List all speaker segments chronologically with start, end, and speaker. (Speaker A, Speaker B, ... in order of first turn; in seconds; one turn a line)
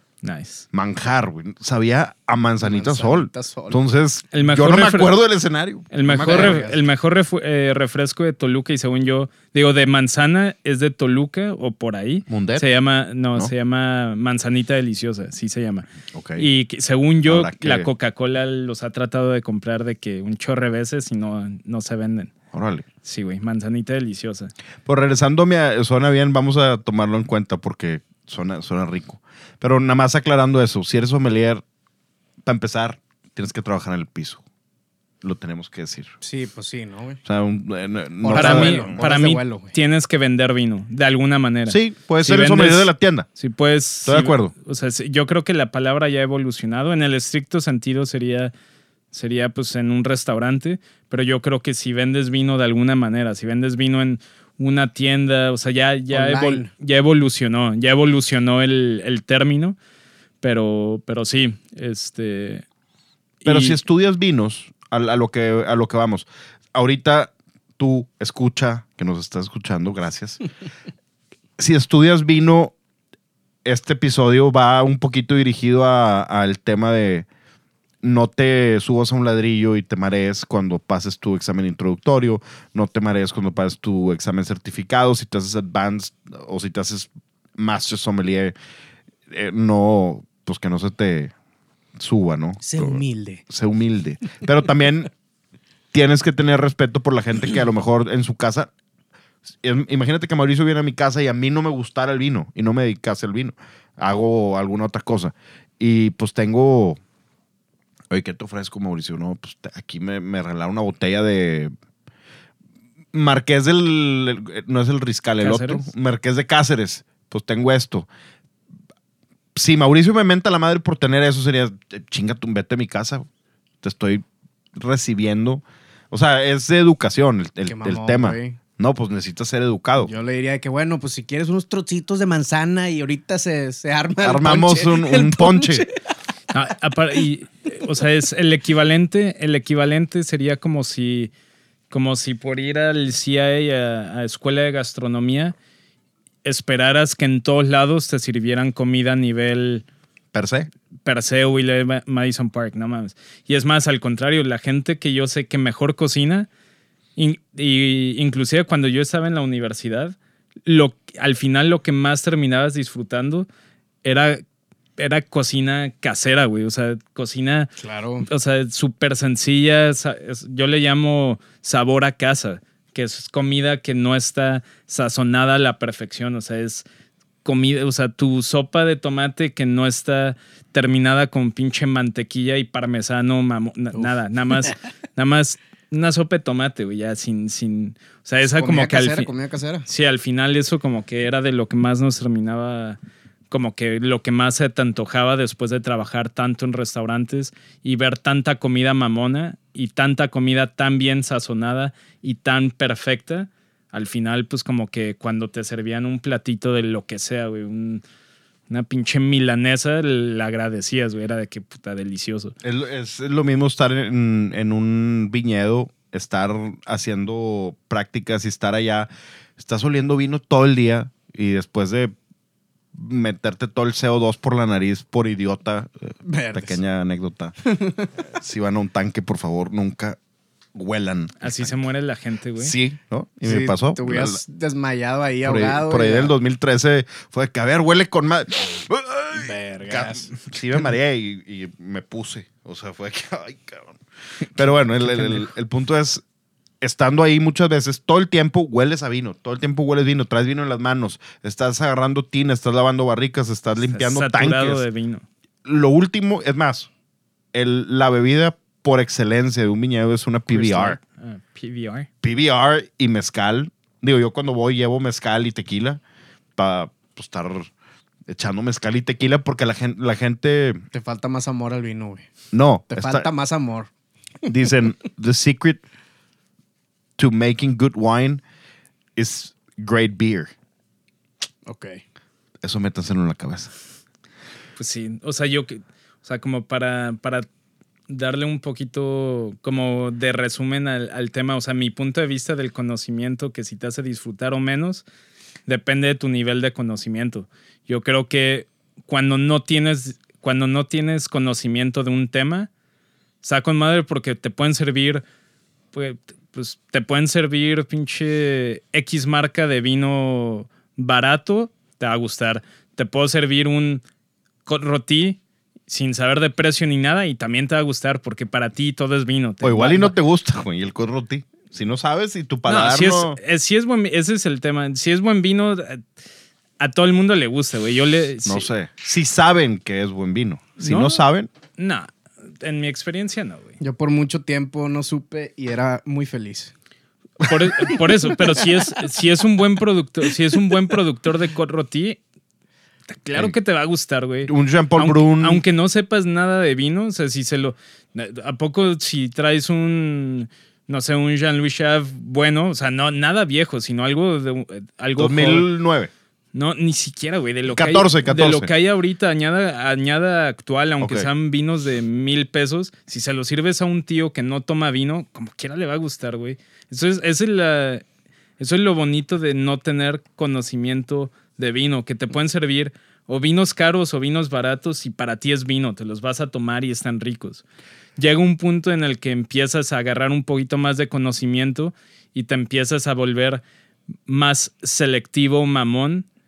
Speaker A: 0.2-0.7
Speaker B: 0.7-6.6
Speaker C: 2.6-3.8
Speaker A: 4.3-5.2
Speaker A: 5.9-22.3
Speaker C: 6.1-6.8
Speaker B: 12.3-12.7
Speaker B: 16.1-16.5
Speaker B: 17.3-17.9
Speaker B: 22.5-22.9
Speaker A: 23.0-24.5
Speaker B: 24.9-31.6
Speaker B: 32.5-34.4
Speaker B: 35.2-36.1
Speaker C: 36.2-37.2
Speaker B: 37.3-39.0
Speaker C: 38.2-39.8
Speaker A: 38.4-48.5
Speaker B: 41.7-43.3
Speaker B: 44.1-44.5
Speaker A: 49.1-59.8
Speaker C: 56.1-56.7
Speaker A: 60.4-62.6
Speaker A: 63.4-63.8
Speaker B: 63.5-70.4
Speaker B: 71.6-72.8
Speaker B: 73.6-77.3
Speaker B: 78.0-88.5
Speaker B: 89.3-91.3
Speaker B: 92.0-95.1
Speaker C: 92.6-93.4
Speaker B: 95.9-98.7
Speaker B: 99.6-107.0
Speaker B: 108.1-111.7
Speaker B: 113.1-118.1
Speaker A: 115.4-115.9
Speaker B: 119.5-123.3
Speaker B: 123.8-130.1
Speaker C: 127.7-128.6
Speaker C: 130.0-136.0
Speaker B: 134.2-135.8
Speaker A: 136.5-141.3
Speaker A: 141.9-145.6
Speaker A: 146.4-149.8
Speaker B: 150.3-150.7
Speaker A: 151.1-156.5
Speaker A: 157.2-163.5
Speaker A: 164.0-164.4
Speaker A: 165.0-167.7
Speaker C: 167.8-168.3
Speaker A: 168.2-176.9
Speaker A: 177.4-189.3
Speaker C: 188.5-189.9
Speaker A: 189.9-193.0
Speaker A: 193.5-208.0
Speaker A: 208.7-212.6
Speaker B: 212.6-222.1
Speaker B: 222.9-227.8
Speaker C: 226.3-226.8
Speaker C: 227.7-228.1
Speaker B: 228.3-230.2
Speaker B: 230.7-231.8
Speaker A: 231.4-232.7
Speaker B: 232.6-234.4
Speaker C: 233.4-236.3
Speaker B: 235.4-244.0
Speaker C: 239.3-240.4
Speaker B: 244.5-246.2
Speaker B: 246.8-254.8
Speaker A: 253.8-255.3
Speaker B: 255.7-256.9
Speaker B: 257.5-261.0
Speaker A: 260.5-262.1
Speaker B: 262.2-266.0
Speaker B: 266.6-267.7
Speaker B: 268.3-270.8
Speaker C: 270.9-272.3
Speaker B: 272.5-273.3
Speaker C: 272.9-273.9
Speaker B: 274.5-275.8
Speaker B: 277.2-278.4
Speaker B: 279.2-280.5
Speaker C: 281.7-282.0
Speaker B: 282.6-283.7
Speaker A: 284.8-287.5
Speaker A: 288.1-295.0
Speaker A: 295.7-302.7
Speaker A: 303.4-305.2
Speaker A: 305.9-314.0
Speaker A: 314.7-320.1
Speaker B: 319.6-323.4
Speaker A: 322.7-326.0
Speaker A: 326.8-328.7
Speaker B: 328.4-331.5
Speaker A: 330.8-331.2
Speaker A: 331.8-333.8
Speaker C: 333.8-336.7
Speaker A: 337.4-342.2
Speaker A: 343.1-355.7
Speaker B: 344.5-345.6
Speaker B: 355.2-356.1
Speaker A: 356.5-368.0
Speaker B: 357.7-358.7
Speaker B: 361.0-361.3
Speaker A: 368.6-377.6
Speaker A: 378.2-383.6
Speaker A: 384.3-386.3